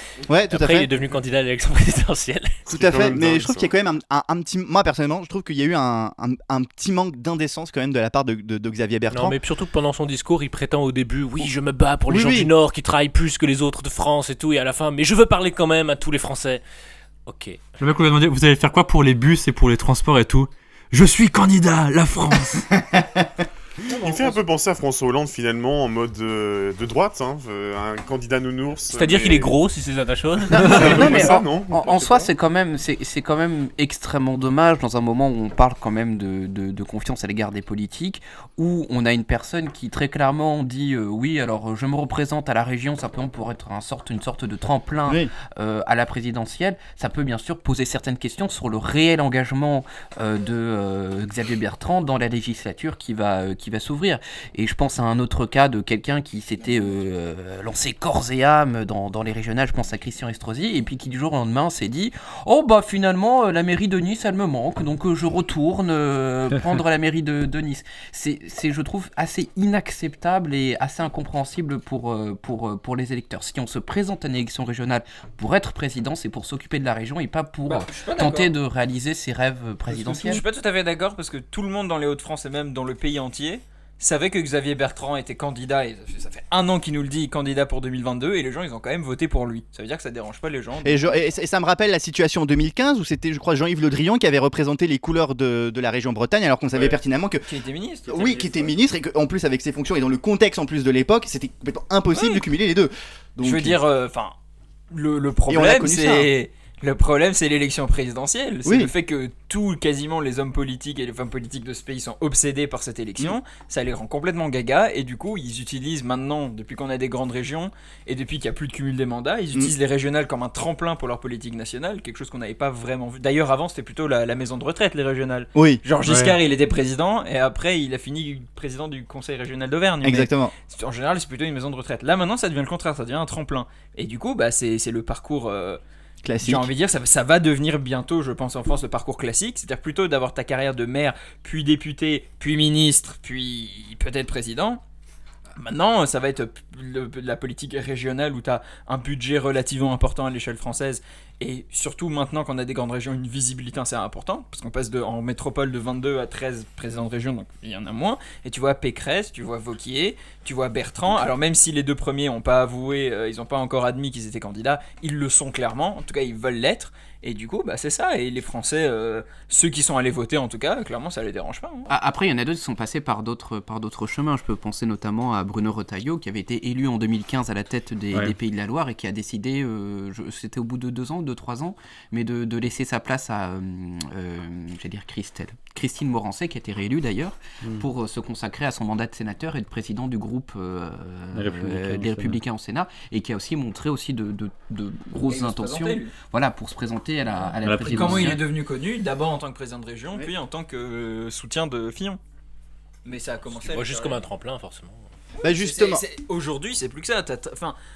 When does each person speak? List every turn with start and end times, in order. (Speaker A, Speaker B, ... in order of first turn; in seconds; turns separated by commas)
Speaker A: 0.3-0.9, Speaker B: 0.5-2.6, Speaker A: 2.7-9.4, Speaker C: 2.7-3.7, Speaker B: 9.1-16.6, Speaker A: 12.1-12.5, Speaker B: 17.3-17.6, Speaker D: 17.8-22.8, Speaker C: 23.9-29.5, Speaker B: 28.9-31.3, Speaker E: 30.5-80.4, Speaker C: 30.5-32.3, Speaker A: 45.1-45.3, Speaker F: 77.7-78.5, Speaker F: 79.9-91.2, Speaker A: 90.8-97.5, Speaker F: 97.5-98.7, Speaker A: 98.1-103.8, Speaker F: 102.1-102.4, Speaker F: 103.4-104.3, Speaker F: 104.9-135.8, Speaker A: 105.5-106.3, Speaker A: 108.6-108.9, Speaker A: 125.5-125.8, Speaker D: 126.0-126.4, Speaker A: 130.0-130.5, Speaker A: 136.2-136.7, Speaker F: 136.4-144.8, Speaker F: 145.6-171.9, Speaker E: 171.9-198.4, Speaker D: 191.3-192.4, Speaker F: 195.3-196.1, Speaker D: 197.6-198.4, Speaker F: 197.9-202.2, Speaker F: 203.0-204.2, Speaker B: 203.5-205.1, Speaker A: 205.4-206.0, Speaker F: 205.4-207.8